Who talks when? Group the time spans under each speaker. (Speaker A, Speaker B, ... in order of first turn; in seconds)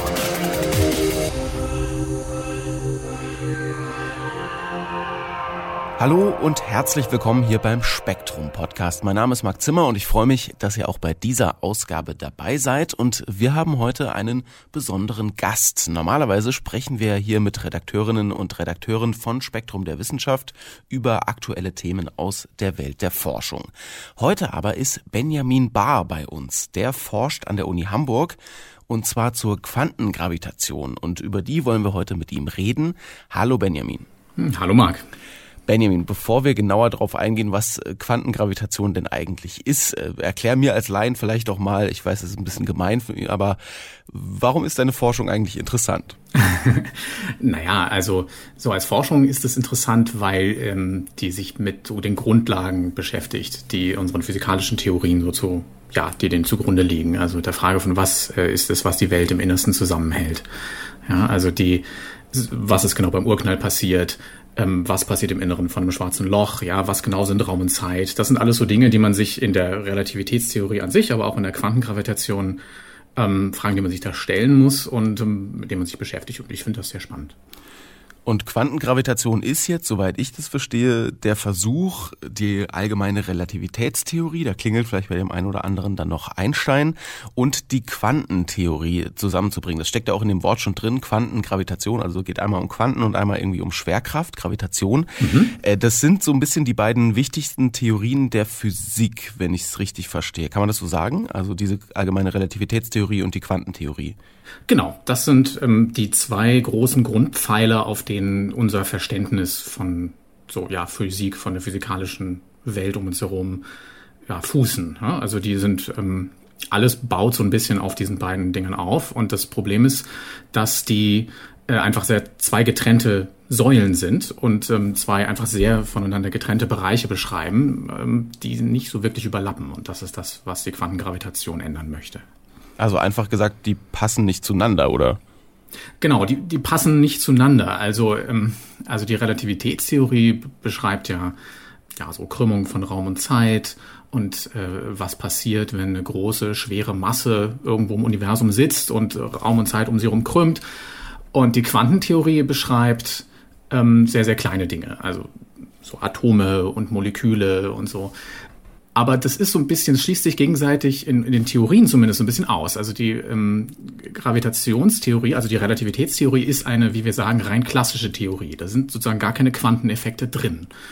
Speaker A: 6.0-34.1, 35.6-46.2, 78.2-104.2, 132.8-135.2
Speaker B: 34.4-35.1, 46.3-60.5, 61.0-72.6, 73.2-77.3, 95.2-95.5, 104.7-113.6, 114.3-132.2, 136.0-141.3, 142.0-150.6, 151.3-155.3, 155.8-158.1, 158.9-170.7